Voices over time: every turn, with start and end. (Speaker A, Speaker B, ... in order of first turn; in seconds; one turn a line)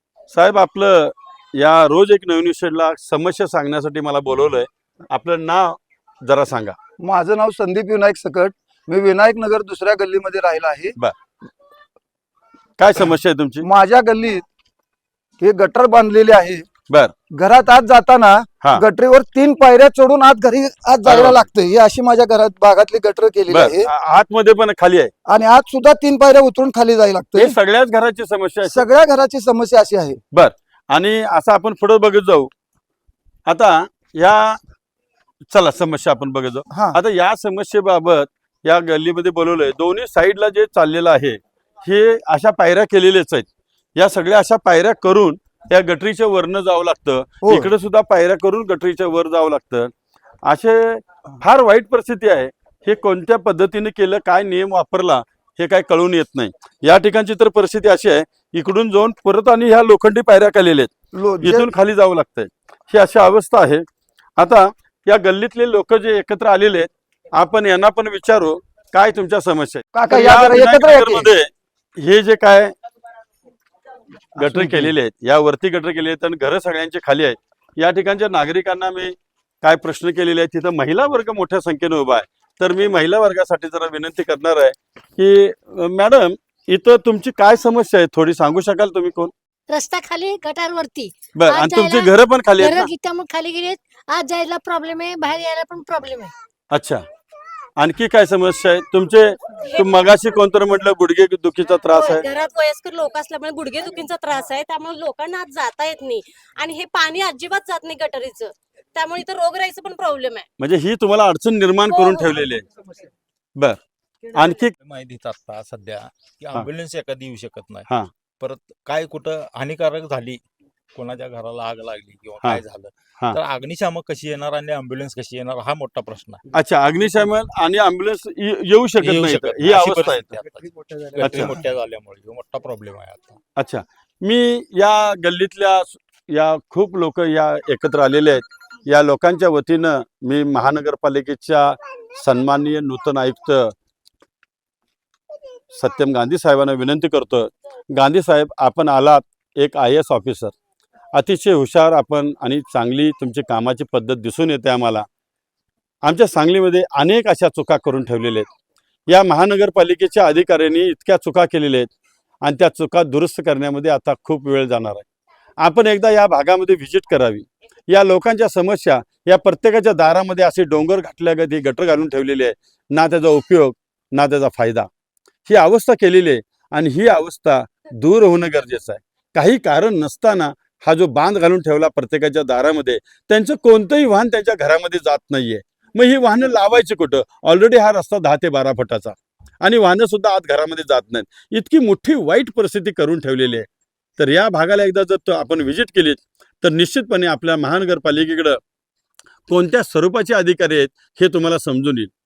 Speaker A: 0.3-6.8
Speaker B: 7.0-10.9
Speaker A: 12.8-13.6
Speaker B: 13.6-14.4
Speaker B: 15.4-16.6
Speaker B: 17.3-23.9
Speaker A: 21.1-21.4
Speaker A: 23.5-25.1
Speaker B: 25.2-27.6
Speaker A: 27.4-28.8
Speaker B: 28.6-30.2
Speaker A: 30.3-32.5
Speaker A: 33.5-34.6
Speaker A: 35.5-49.9
Speaker B: 36.7-37.0
Speaker B: 47.4-47.7
Speaker A: 50.4-63.8
Speaker B: 61.1-61.7
Speaker A: 64.4-72.7
Speaker B: 69.9-71.3
Speaker B: 74.4-74.9
Speaker A: 74.4-89.3
Speaker C: 89.7-96.3
Speaker A: 91.3-92.9
Speaker A: 96.7-97.0
Speaker A: 97.8-102.2
Speaker D: 101.9-110.5
Speaker A: 110.6-112.6
Speaker D: 111.9-112.4
Speaker A: 114.3-114.7
Speaker E: 114.7-120.4
Speaker E: 120.9-126.4
Speaker A: 126.5-130.4
Speaker E: 129.0-133.4
Speaker A: 131.2-131.6
Speaker A: 133.6-143.7
Speaker A: 145.7-150.5
Speaker A: 151.1-155.1
Speaker A: 156.0-158.4
Speaker A: 159.1-161.9
Speaker A: 162.4-165.1
Speaker A: 165.6-174.9
Speaker A: 175.5-198.6
Speaker A: 199.5-202.1